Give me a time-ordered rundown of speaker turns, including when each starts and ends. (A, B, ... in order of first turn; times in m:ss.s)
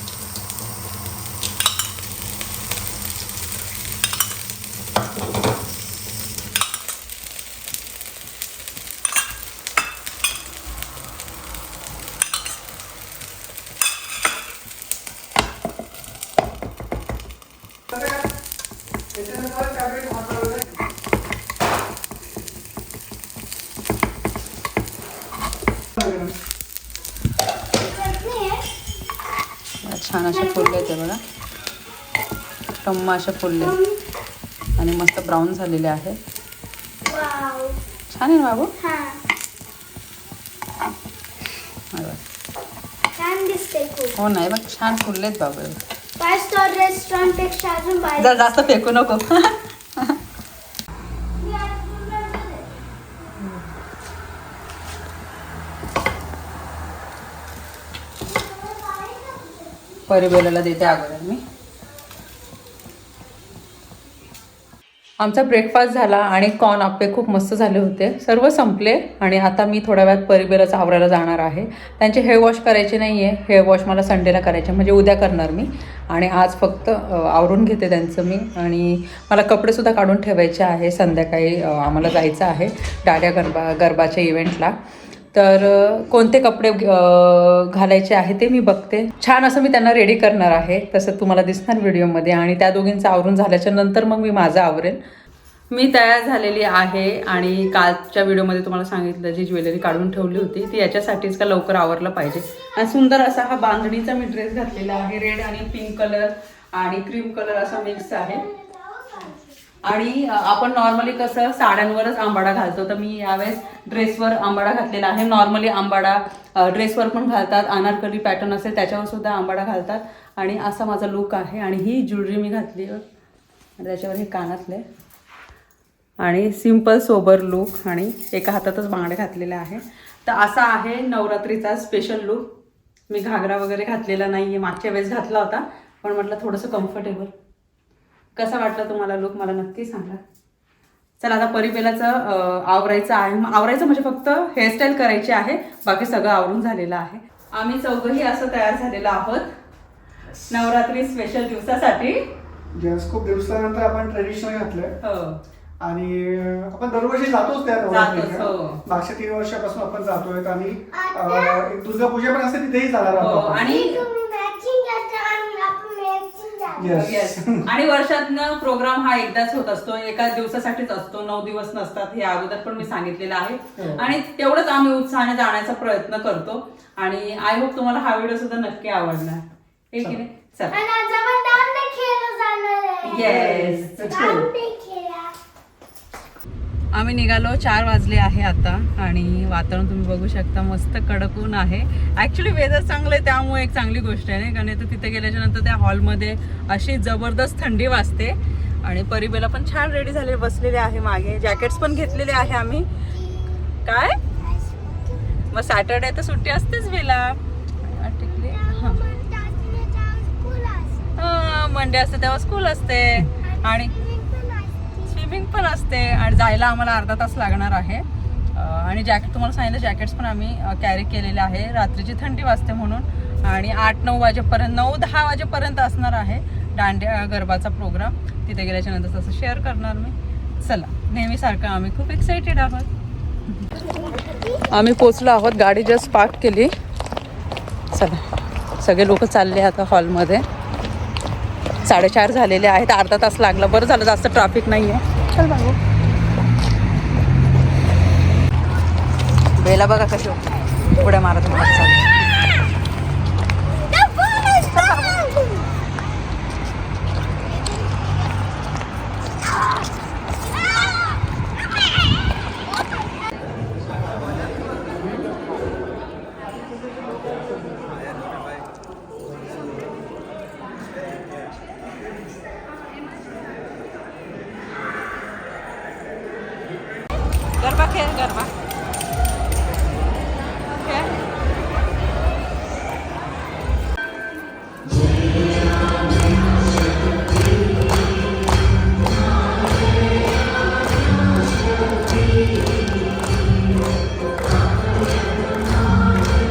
0:17.9-0:18.3 A
0:19.1-0:20.7 A
0:26.0-0:26.3 A
0:27.8-0:28.7 B
0:29.8-0:31.2 C
0:32.8-0:33.8 C
0:33.6-0:34.0 B
0:34.8-0:36.2 C
0:37.1-0:37.8 B
0:38.1-0:38.7 C
0:38.8-0:39.2 B
0:41.9-0:42.2 C
0:43.2-0:44.2 B
0:44.2-0:45.8 C
0:46.2-0:48.4 B
0:48.2-0:50.2 C
0:51.4-0:52.7 B
0:58.3-0:59.9 B
1:00.1-1:01.4 C
1:05.2-1:24.8 C
1:25.3-1:35.0 C
1:35.7-1:48.5 C
1:48.4-1:49.4 B
1:49.8-2:03.0 C
2:03.8-2:04.8 C
2:06.2-2:12.5 C
2:13.1-2:17.3 C
2:18.4-2:20.2 C
2:21.2-2:29.5 C
2:30.5-2:32.3 C
2:32.7-2:34.9 A
2:35.0-2:35.4 C
2:35.8-2:43.7 A
2:37.9-2:38.8 C
2:40.9-2:41.7 B
2:43.2-2:44.0 C
2:43.6-2:47.0 B
2:46.8-2:47.7 A
2:46.9-3:00.8 C
2:53.8-2:54.0 A
3:00.7-3:03.4 B
3:03.0-3:04.1 C
3:03.3-3:04.5 A
3:04.0-3:05.4 B
3:06.9-3:22.9 C
3:23.8-3:24.2 C
3:24.4-3:25.4 B
3:25.5-3:29.0 C
3:28.5-3:31.1 B
3:31.2-3:34.0 C
3:33.4-3:35.1 B
3:35.1-3:52.9 C
3:54.0-3:54.6 B
3:54.6-3:56.7 C
3:57.9-3:58.2 C
3:58.8-4:00.4 C
4:01.8-4:05.8 C
4:09.6-4:12.1 C
4:13.9-4:15.6 B
4:14.7-4:15.3 C
4:37.6-4:38.5 C
4:40.8-4:41.1 C